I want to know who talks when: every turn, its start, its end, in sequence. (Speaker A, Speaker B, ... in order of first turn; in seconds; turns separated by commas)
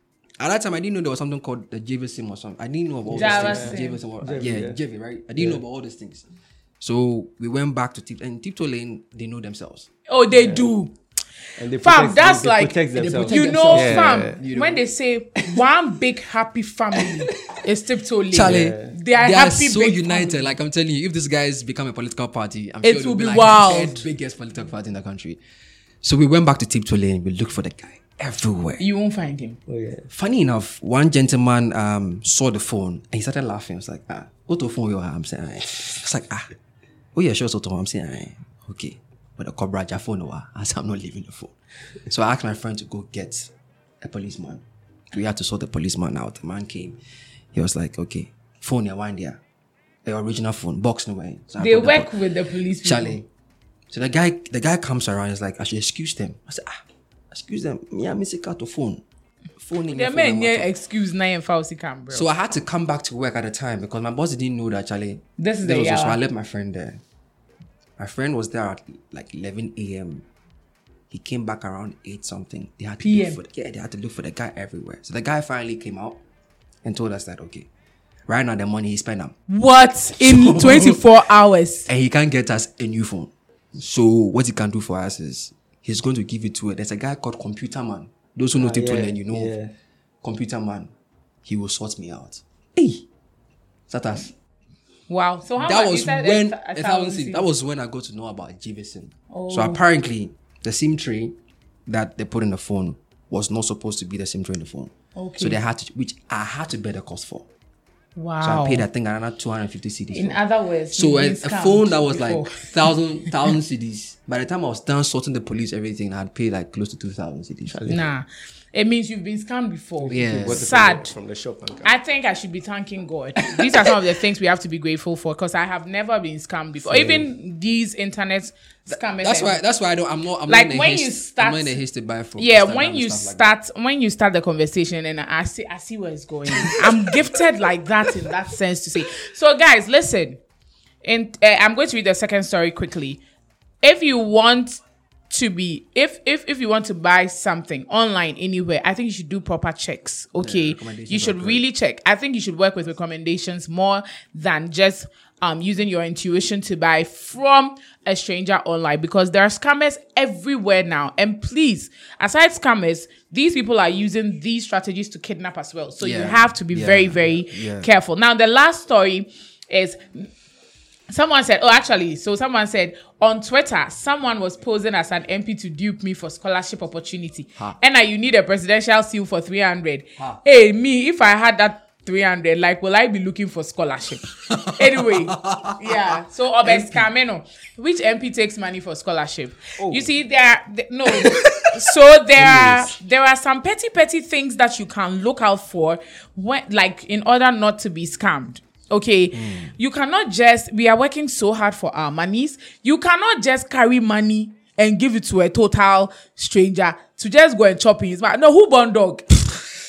Speaker A: 0.4-6.2, Speaker B: 3.1-4.8, Speaker C: 3.1-4.0, Speaker B: 5.4-5.6, Speaker A: 6.8-9.9, Speaker C: 10.1-10.9, Speaker B: 10.3-10.7, Speaker B: 11.6-14.4, Speaker C: 11.8-20.6, Speaker A: 12.9-14.8, Speaker A: 17.0-17.4, Speaker A: 18.3-25.4, Speaker B: 18.4-18.9, Speaker C: 22.8-24.1, Speaker A: 26.0-28.9, Speaker C: 28.8-29.6, Speaker B: 29.7-30.1, Speaker A: 30.1-36.5, Speaker A: 37.1-43.5, Speaker A: 44.0-47.0, Speaker A: 47.5-49.4, Speaker A: 50.0-52.1, Speaker C: 51.6-53.2, Speaker A: 52.8-53.3, Speaker A: 53.9-59.0, Speaker A: 59.6-60.7, Speaker C: 59.9-62.3, Speaker A: 62.1-67.0, Speaker C: 65.4-66.2, Speaker A: 68.0-70.2, Speaker A: 71.1-76.2, Speaker C: 73.0-73.4, Speaker A: 76.8-77.7, Speaker A: 78.3-79.4, Speaker C: 79.5-81.9, Speaker A: 80.2-81.0, Speaker A: 81.9-89.5, Speaker B: 88.6-89.7, Speaker A: 90.2-90.9, Speaker A: 91.5-93.0, Speaker A: 93.9-94.3, Speaker C: 95.1-97.5, Speaker A: 95.6-101.4, Speaker C: 99.3-99.8, Speaker A: 101.9-107.5, Speaker C: 105.2-105.6, Speaker C: 108.2-108.9, Speaker A: 108.4-110.4, Speaker C: 110.1-112.9, Speaker A: 110.9-117.9, Speaker B: 117.7-118.0, Speaker C: 117.9-121.1, Speaker B: 120.0-121.9, Speaker A: 120.1-120.7, Speaker C: 121.8-129.6, Speaker B: 126.9-127.2, Speaker A: 128.9-133.5, Speaker C: 130.5-131.8, Speaker C: 132.4-140.4, Speaker A: 136.6-137.2, Speaker C: 141.0-143.2, Speaker C: 143.8-170.3, Speaker A: 150.4-151.7, Speaker A: 166.0-167.9, Speaker C: 171.1-209.7, Speaker A: 184.5-186.0, Speaker A: 186.6-187.1, Speaker B: 189.8-190.1, Speaker A: 191.2-191.7, Speaker A: 192.4-192.9, Speaker A: 199.3-199.7